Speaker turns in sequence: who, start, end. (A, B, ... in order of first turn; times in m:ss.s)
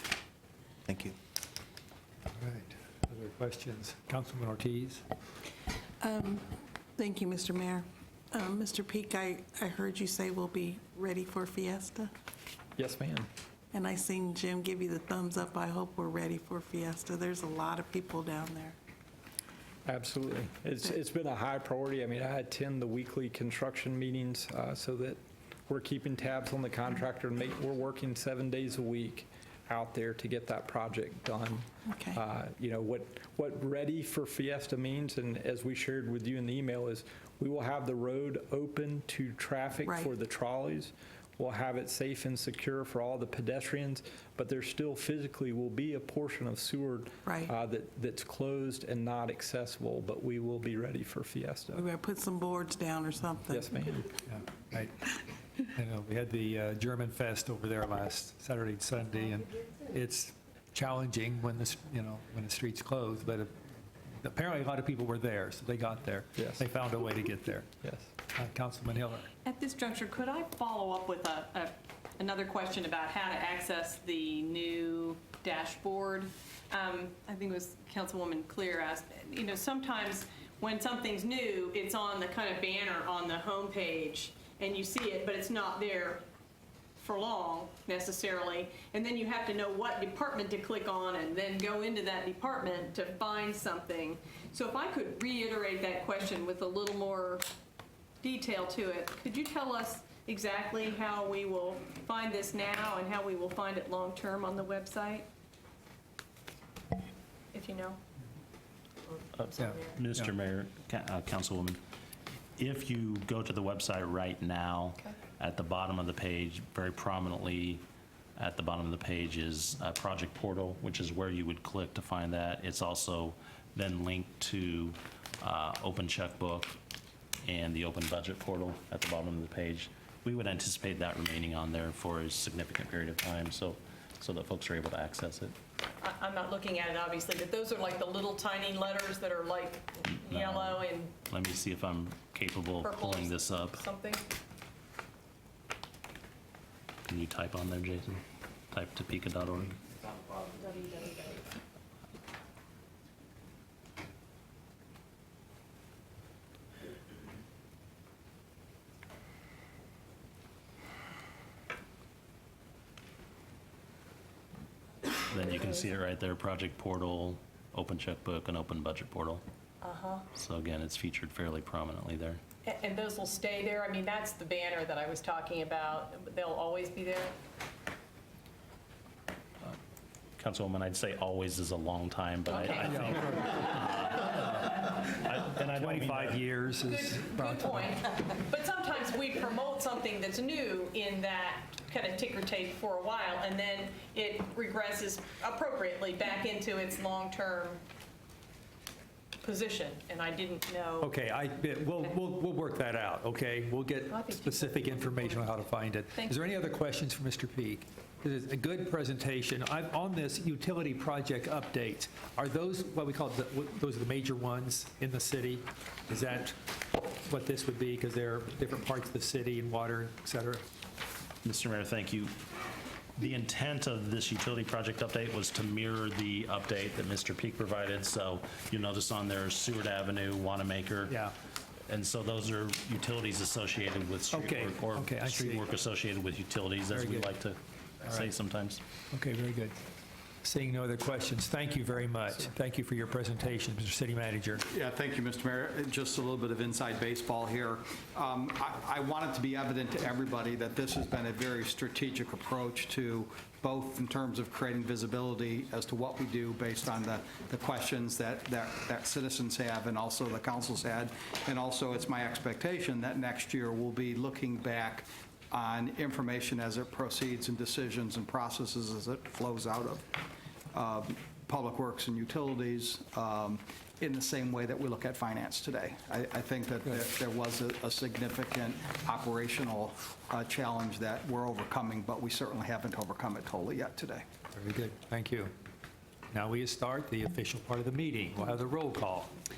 0:02.4-0:05.0 A
0:06.0-0:12.1 B
0:12.8-0:13.3 C
0:13.7-0:18.8 B
0:19.9-0:51.9 C
0:31.9-0:32.2 B
0:47.3-0:47.5 B
0:51.7-0:53.7 B
0:53.5-0:54.1 C
0:54.3-0:55.1 A
0:55.8-1:03.5 A
1:04.2-1:07.7 A
1:08.3-1:09.3 A
1:09.4-1:26.2 D
1:27.0-1:37.5 D
1:38.2-1:45.3 D
1:47.5-1:48.0 D
1:49.4-1:51.8 E
1:49.5-1:49.9 D
1:49.6-1:50.3 A
1:52.6-1:57.8 E
1:58.4-2:06.8 E
2:07.4-2:15.5 E
2:16.0-2:21.1 D
2:20.3-2:23.8 E
2:22.8-2:24.2 D
2:27.1-2:28.2 E
2:28.7-2:29.8 E
2:30.5-2:31.4 D
2:45.3-2:49.4 E
2:49.8-2:50.3 D
2:50.4-2:52.4 E
2:52.6-2:57.3 D
3:00.4-3:06.4 E
3:02.5-3:03.8 D
3:02.7-3:03.6 A
3:05.7-3:07.9 A
3:06.9-3:17.8 D
3:19.4-3:21.1 D
3:21.0-3:36.6 A
3:24.1-3:25.6 D
3:26.1-3:26.4 D
3:37.3-3:40.6 A
3:41.4-3:42.3 E
3:43.2-3:51.1 E
3:51.1-3:51.3 A
3:51.9-3:57.6 E
3:54.3-3:55.8 A
3:56.9-3:57.4 A
3:58.0-3:58.3 A
3:58.2-3:58.8 E
3:59.1-3:59.8 A
4:00.4-4:04.6 A
4:04.7-4:30.2 F
4:30.7-4:44.2 F
4:44.6-4:45.5 A
4:46.3-4:49.3 A